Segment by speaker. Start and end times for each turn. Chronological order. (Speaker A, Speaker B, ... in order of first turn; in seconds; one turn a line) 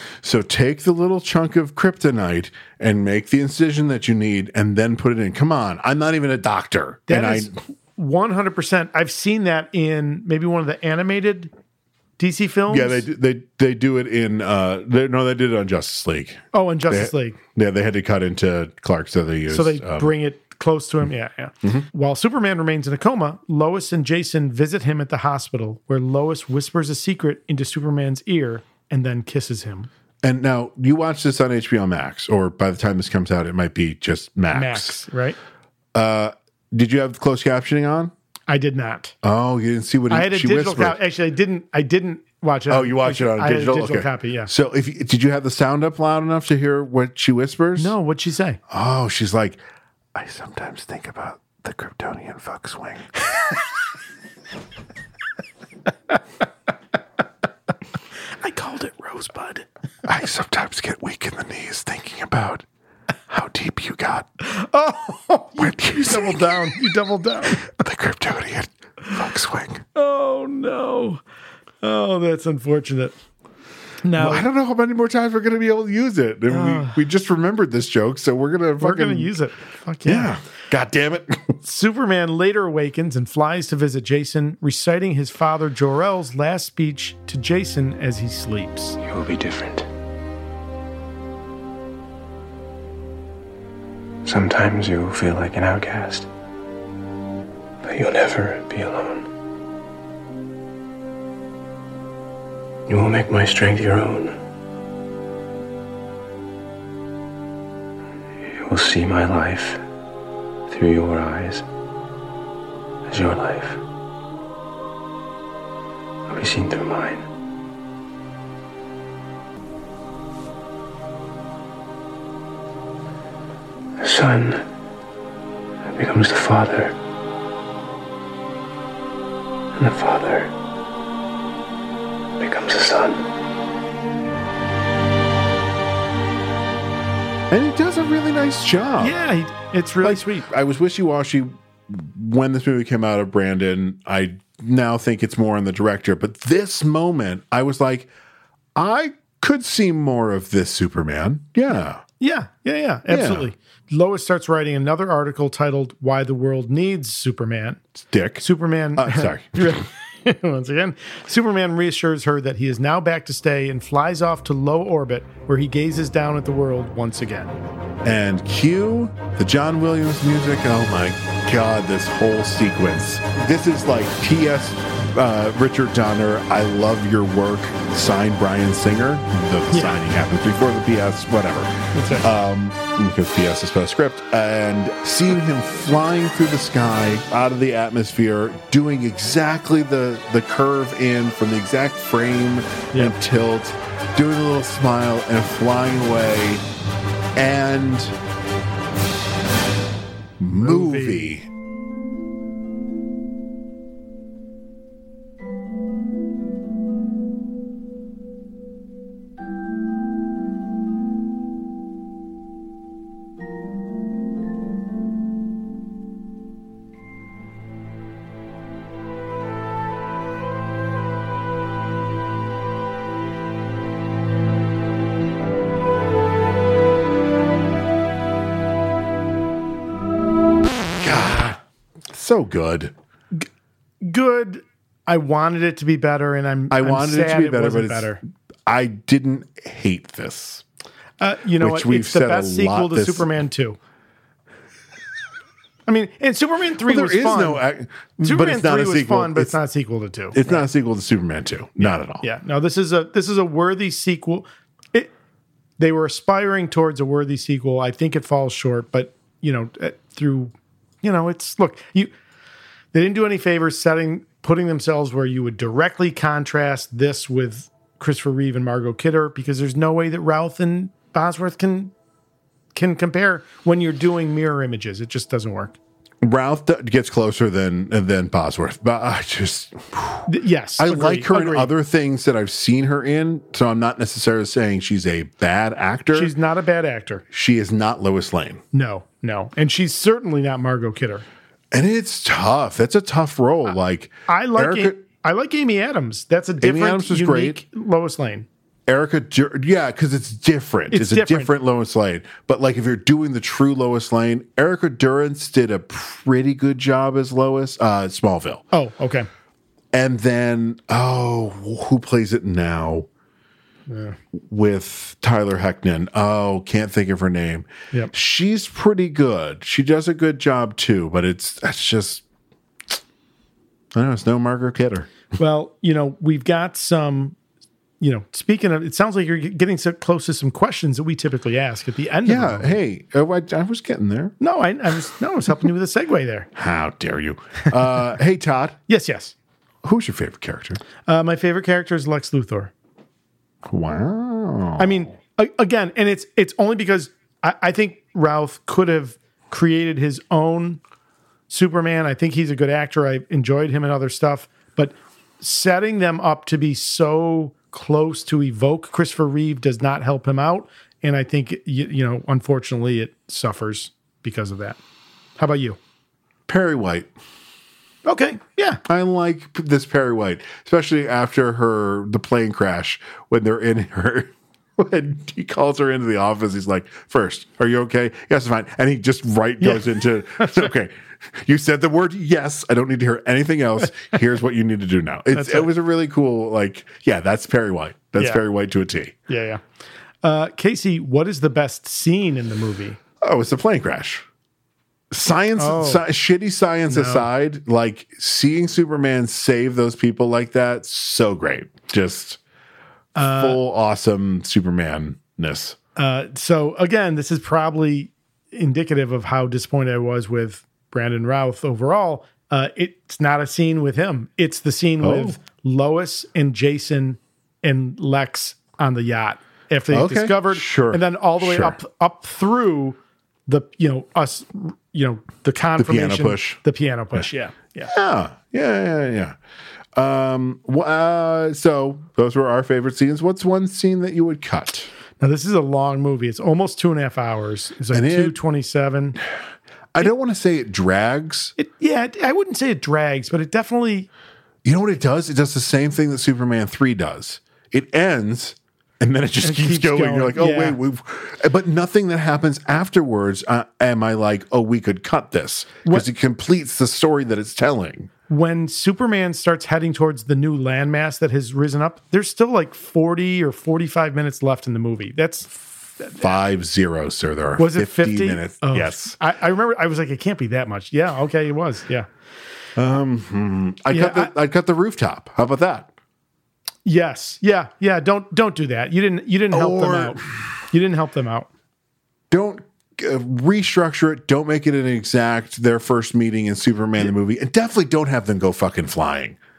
Speaker A: 0.2-7.6
Speaker B: 7.1-11.5
Speaker B: 12.2-13.0
Speaker A: 12.7-20.1
Speaker B: 16.5-17.4
Speaker B: 19.5-29.9
Speaker A: 30.2-35.0
Speaker B: 34.5-35.4
Speaker A: 35.9-38.1
Speaker B: 38.5-39.1
Speaker A: 39.2-41.0
Speaker B: 40.1-44.5
Speaker A: 42.7-47.9
Speaker B: 47.8-48.6
Speaker A: 48.7-49.6
Speaker A: 50.1-53.1
Speaker B: 58.4-59.6
Speaker A: 60.0-62.6
Speaker A: 63.3-64.3
Speaker B: 64.4-67.7
Speaker A: 65.6-66.7
Speaker A: 67.5-69.8
Speaker B: 69.9-71.2
Speaker B: 71.8-73.1
Speaker B: 74.0-74.5
Speaker A: 74.2-79.3
Speaker B: 76.5-77.0
Speaker B: 78.8-80.3
Speaker A: 80.0-81.5
Speaker B: 81.6-89.0
Speaker C: 89.0-89.9
Speaker C: 94.2-96.3
Speaker C: 97.8-99.3
Speaker C: 102.9-104.4
Speaker C: 108.4-109.8
Speaker C: 110.7-111.6
Speaker C: 113.0-113.8
Speaker C: 116.3-117.2
Speaker C: 124.0-124.7
Speaker C: 125.9-127.0
Speaker C: 129.7-130.5
Speaker C: 132.4-133.2
Speaker A: 137.5-139.2
Speaker B: 139.0-140.4
Speaker A: 140.0-148.1
Speaker A: 148.7-152.0
Speaker B: 152.2-157.8
Speaker A: 153.1-153.5
Speaker A: 158.1-158.4
Speaker B: 158.4-167.5
Speaker A: 158.9-159.8
Speaker A: 168.0-196.6
Speaker B: 179.7-180.0
Speaker B: 181.9-182.3
Speaker A: 197.3-198.1
Speaker A: 200.4-201.4
Speaker B: 200.5-201.3
Speaker A: 231.0-231.6
Speaker A: 232.1-232.9
Speaker B: 234.0-238.2
Speaker A: 236.7-240.6
Speaker B: 241.2-243.8
Speaker A: 241.6-243.3
Speaker B: 245.9-247.6
Speaker A: 246.8-249.6
Speaker B: 248.2-250.6
Speaker A: 250.3-252.2
Speaker B: 251.8-255.1
Speaker B: 255.8-262.1
Speaker B: 262.9-271.9
Speaker B: 272.7-275.8
Speaker A: 276.2-280.3
Speaker B: 280.3-281.7
Speaker A: 280.8-286.3
Speaker B: 286.1-287.2
Speaker A: 287.3-288.6
Speaker B: 288.7-291.2
Speaker A: 291.7-295.0
Speaker B: 294.3-298.5
Speaker A: 296.6-297.6
Speaker A: 298.9-308.6
Speaker B: 300.9-301.5
Speaker B: 308.7-309.3
Speaker A: 309.9-313.1
Speaker B: 313.9-314.2
Speaker A: 314.3-322.2
Speaker A: 323.9-325.1
Speaker B: 325.4-327.4
Speaker B: 328.0-332.8
Speaker A: 332.2-334.3
Speaker B: 334.4-336.5
Speaker A: 336.5-338.8
Speaker B: 338.9-339.3
Speaker A: 339.8-340.8
Speaker B: 341.1-342.7
Speaker A: 343.6-345.1
Speaker B: 344.8-350.8
Speaker B: 351.5-364.8
Speaker B: 365.4-365.8
Speaker A: 366.5-367.1
Speaker B: 368.0-368.8
Speaker A: 368.8-389.1
Speaker B: 379.6-380.7
Speaker B: 385.3-385.7
Speaker B: 389.3-389.6
Speaker B: 390.2-393.0
Speaker A: 393.2-394.2
Speaker A: 395.1-402.4
Speaker B: 395.6-396.0
Speaker B: 396.9-397.3
Speaker B: 403.1-403.6
Speaker A: 403.1-405.8
Speaker B: 405.9-427.9
Speaker A: 415.0-415.4
Speaker A: 419.9-421.8
Speaker A: 425.8-426.6
Speaker A: 427.9-429.4
Speaker A: 429.9-434.9
Speaker B: 435.2-439.2
Speaker A: 437.9-438.4
Speaker A: 439.9-441.5
Speaker B: 441.6-444.1
Speaker A: 444.6-458.1
Speaker B: 449.4-450.8
Speaker B: 458.3-466.2
Speaker A: 466.2-469.1
Speaker B: 467.6-472.1
Speaker A: 472.8-475.9
Speaker B: 473.9-474.3
Speaker B: 476.9-481.5
Speaker A: 479.5-480.4
Speaker A: 482.3-489.4